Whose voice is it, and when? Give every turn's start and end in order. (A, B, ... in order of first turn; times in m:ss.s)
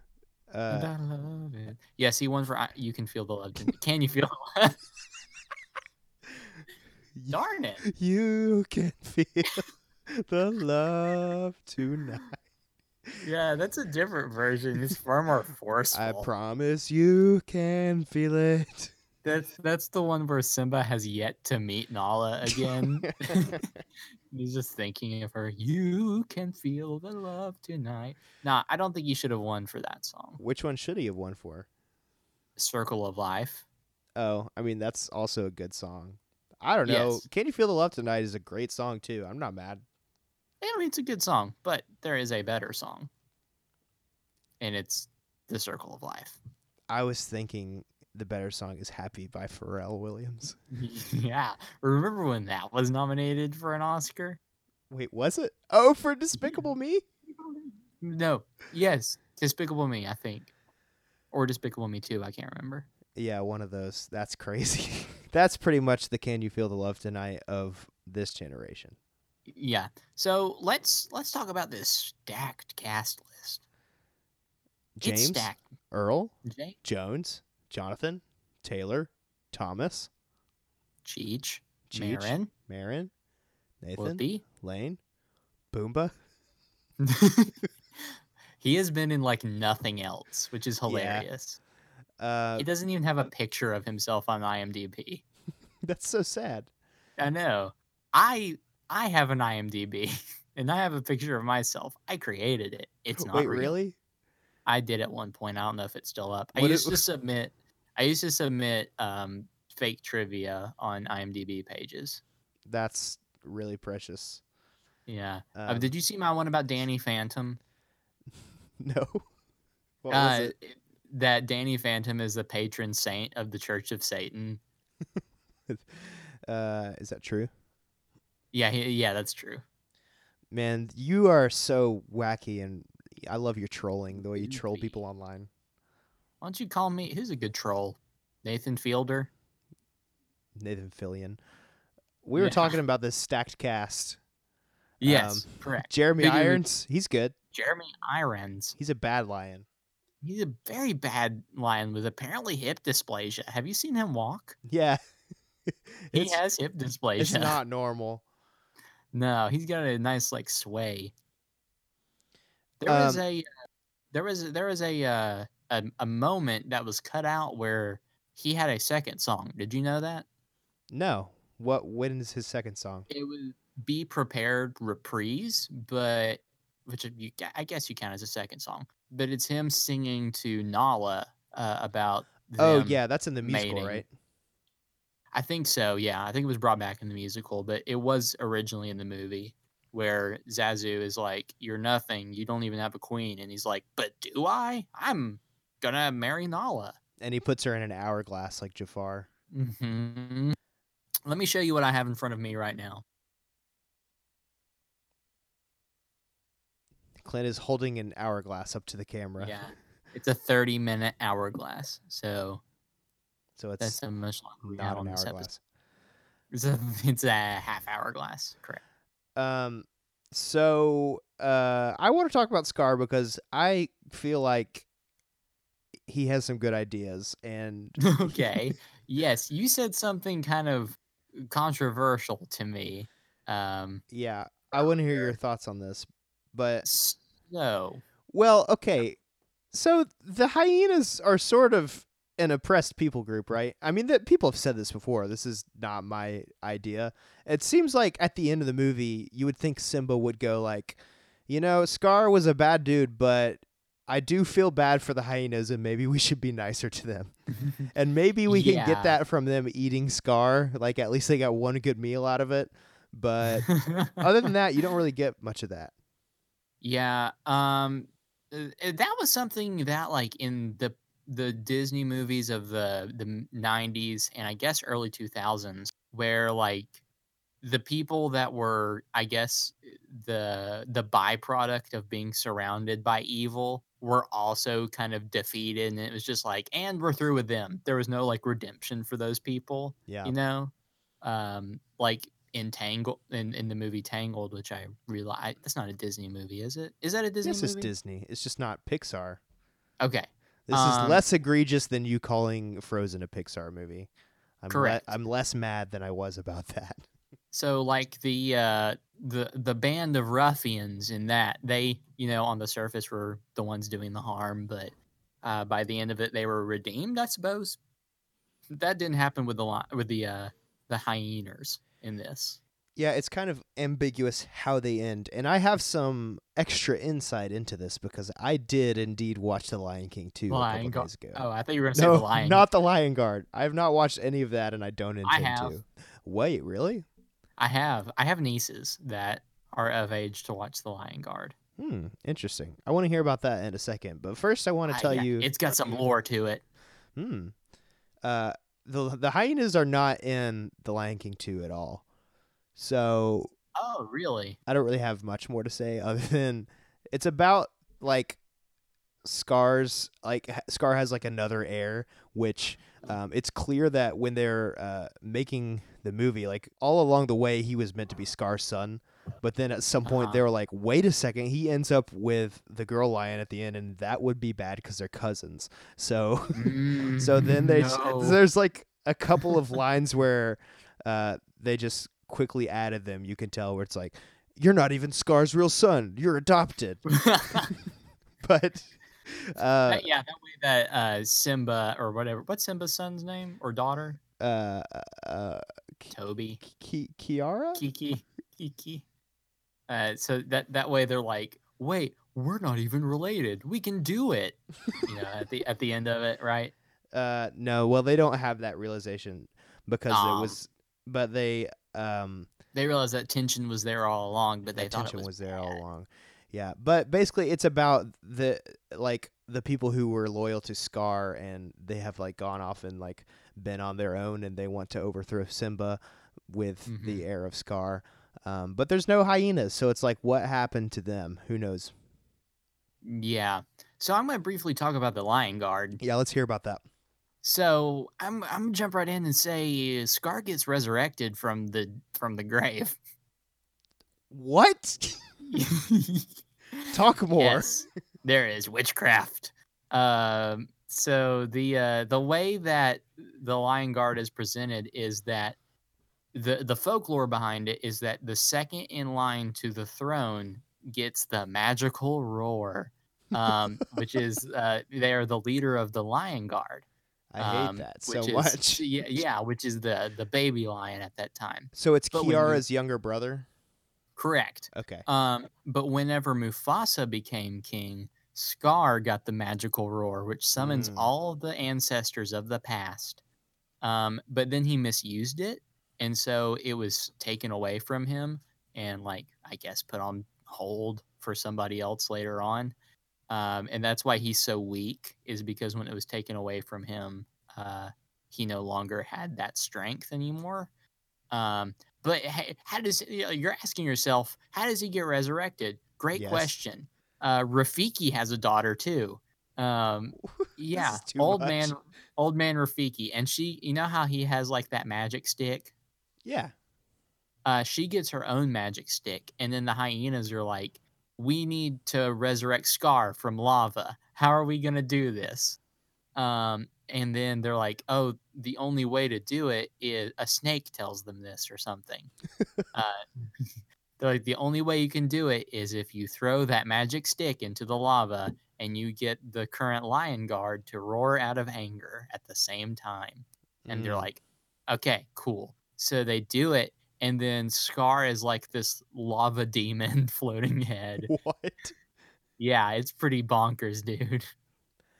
0:00.5-0:00.9 A
0:00.7-0:04.8 B
0:07.1-0:12.4 A
0:07.3-0:07.8 B
0:13.2-0:16.3 B
0:15.9-0:18.9 A
0:19.2-0:23.6 B
0:22.5-0:23.6 A
0:24.3-0:30.4 B
0:30.4-0:31.7 A
0:32.6-0:33.6 B
0:34.2-0:39.8 A
0:36.8-0:37.2 B
0:40.6-0:43.1 B
0:44.6-0:46.4 B
0:46.9-0:50.6 A
0:50.7-0:54.4 B
0:54.9-0:57.0 A
0:57.4-1:00.5 B
1:01.3-1:02.9 B
1:03.1-1:08.9 A
1:09.5-1:13.6 B
1:15.0-1:20.1 A
1:15.0-1:15.6 B
1:16.4-1:16.8 B
1:21.0-1:22.5 B
1:21.9-1:23.1 A
1:23.8-1:25.0 A
1:24.0-1:24.4 B
1:25.7-1:26.1 A
1:27.0-1:27.5 B
1:28.6-1:31.6 B
1:30.9-1:31.3 A
1:32.2-1:32.7 A
1:32.6-1:35.2 B
1:35.8-1:36.7 A
1:37.2-1:43.7 B
1:43.2-1:44.0 A
1:44.6-1:52.2 B
1:46.5-1:47.0 A
1:52.6-1:54.4 A
1:55.1-1:57.6 B
1:55.6-1:55.9 A
1:58.8-1:59.2 A
2:00.0-2:00.5 A
2:00.1-2:04.6 B
2:05.7-2:07.5 A
2:08.5-2:09.6 B
2:10.5-2:15.5 A
2:14.2-2:15.0 B
2:16.4-2:19.3 B
2:20.6-2:21.4 A
2:22.2-2:24.2 A
2:22.4-2:22.8 B
2:25.0-2:26.6 B
2:25.0-2:27.3 A
2:27.5-2:28.7 B
2:28.8-2:29.6 A
2:30.2-2:34.6 B
2:34.6-2:35.0 A
2:35.7-2:36.4 A
2:36.1-2:37.6 B
2:37.2-2:38.2 A
2:39.1-2:41.1 B
2:42.8-2:43.4 B
2:42.8-2:43.2 A
2:44.1-2:50.2 B
2:50.9-2:53.1 A
2:53.1-3:04.0 B
3:02.6-3:04.1 A
3:05.3-3:17.0 B
3:17.2-3:19.3 A
3:19.5-3:20.6 B
3:21.2-3:23.0 B
3:27.2-3:29.6 A
3:29.4-3:32.6 B
3:33.6-3:34.0 A
3:33.8-3:35.5 B
3:34.6-3:35.6 A
3:36.5-3:38.8 B
3:39.4-3:44.8 A
3:46.1-3:48.5 A
3:48.0-3:54.0 B
3:54.1-3:56.8 A
3:56.8-3:58.0 B
3:58.3-3:59.2 A
3:59.7-4:17.3 A
4:17.6-4:17.8 B
4:17.9-4:25.9 A
4:18.5-4:19.2 B
4:23.5-4:24.2 B
4:26.8-4:37.0 B
4:37.6-4:57.9 B
4:50.1-4:50.3 A
4:57.4-4:59.4 A
5:00.0-5:01.2 B
5:00.7-5:04.1 A
5:04.6-5:07.0 A
5:04.7-5:05.1 B
5:07.5-5:17.8 B
5:18.7-5:22.6 B
5:23.0-5:37.0 A
5:30.5-5:32.6 B
5:35.2-5:35.8 B
5:37.6-5:41.5 B
5:41.8-5:46.0 A
5:44.9-5:46.6 B
5:47.1-5:47.5 A
5:48.2-5:52.0 A
5:52.8-5:53.5 A
5:53.8-5:54.6 B
5:54.7-5:58.4 A
5:59.2-6:27.0 A
6:10.0-6:10.4 B
6:16.5-6:18.4 B
6:27.1-6:27.7 B
6:28.4-6:30.0 A
6:29.9-6:34.2 B
6:34.4-6:37.8 A
6:36.1-6:36.6 B
6:37.7-6:39.0 B
6:39.9-6:46.7 B
6:47.1-6:52.5 A
6:50.1-6:50.6 B
6:52.7-6:55.8 B
6:54.7-7:11.9 A
7:06.9-7:07.2 B
7:13.0-7:16.0 B
7:16.0-7:16.8 A
7:17.4-7:23.0 B
7:24.3-7:25.2 A
7:25.5-7:35.6 B
7:26.9-7:27.8 A
7:36.3-7:46.8 B
7:47.3-7:48.8 A
7:47.4-7:52.6 B
7:51.7-7:53.5 A
7:54.2-8:03.2 B
7:54.7-7:55.0 A
8:00.6-8:01.1 A
8:03.8-8:12.7 B
8:13.3-8:20.7 B
8:21.3-8:35.7 B
8:26.1-8:26.5 A
8:30.2-8:31.8 A
8:36.2-8:36.5 A
8:37.4-8:45.6 B
8:46.1-8:52.1 B
8:52.7-9:11.1 B
9:03.6-9:04.1 A
9:11.0-9:11.7 A
9:12.4-9:14.3 B